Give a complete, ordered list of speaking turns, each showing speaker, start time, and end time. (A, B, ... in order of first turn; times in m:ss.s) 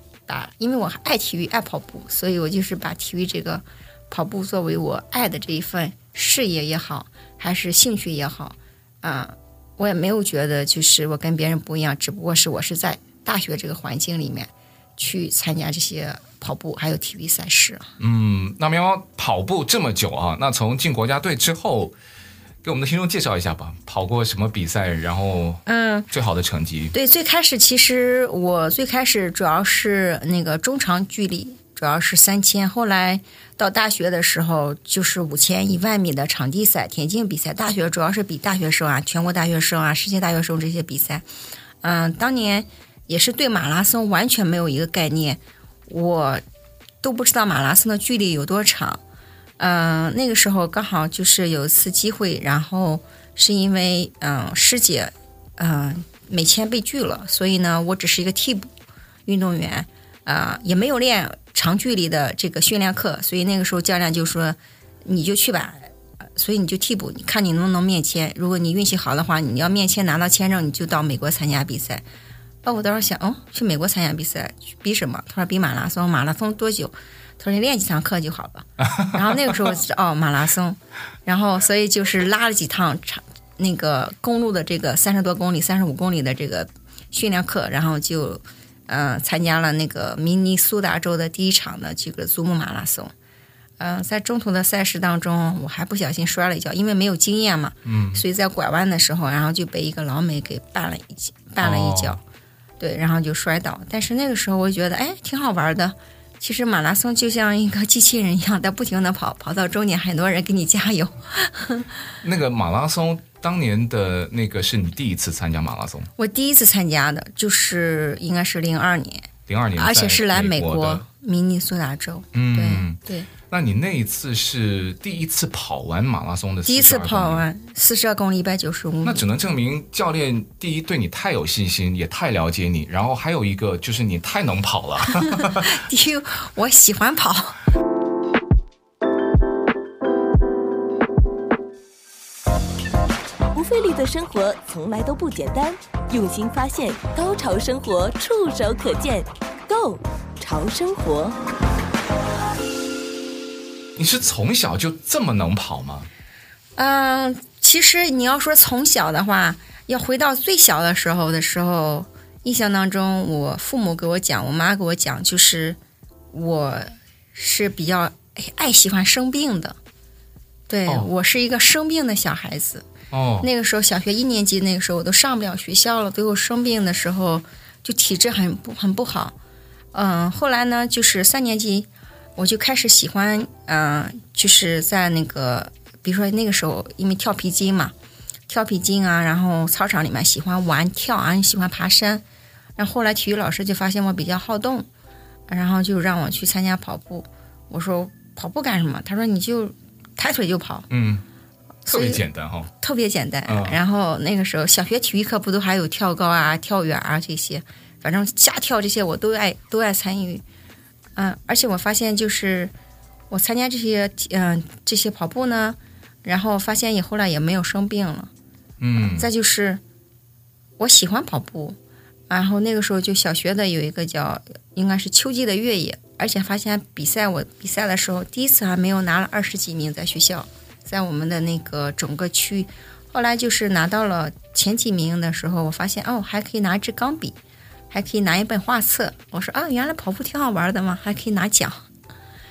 0:00.3-0:17.9 A
0:18.0-0:22.0 B
0:22.6-0:26.9 B
0:25.7-0:26.1 A
0:26.9-0:41.2 A
0:41.8-0:46.4 A
0:47.0-0:49.0 A
0:49.6-0:58.7 A
0:59.3-1:12.0 A
1:12.6-1:33.1 A
1:33.8-1:42.2 A
1:37.9-1:38.2 B
1:41.6-1:42.2 B
1:42.8-1:51.9 A
1:52.2-1:56.1 B
1:56.2-2:03.3 A
1:59.5-2:01.0 B
2:02.3-2:07.5 B
2:06.7-2:09.3 A
2:09.0-2:15.8 B
2:15.1-2:17.6 A
2:23.5-2:31.4 C
2:34.0-2:36.1 B
2:36.8-2:45.8 A
2:46.3-2:49.8 A
2:50.7-2:52.9 A
2:53.1-2:53.5 B
2:53.4-2:59.4 A
2:59.9-3:07.9 A
3:08.5-3:12.2 A
3:12.8-3:14.9 A
3:15.5-3:20.9 A
3:20.9-3:21.2 B
3:21.8-3:22.2 A
3:21.9-3:22.7 B
3:22.8-3:30.4 A
3:23.5-3:23.8 B
3:31.2-3:32.7 A
3:33.3-3:38.3 A
3:38.8-3:39.3 B
3:39.0-3:39.8 A
3:40.8-3:41.8 A
3:42.3-3:57.4 A
3:57.9-4:01.8 A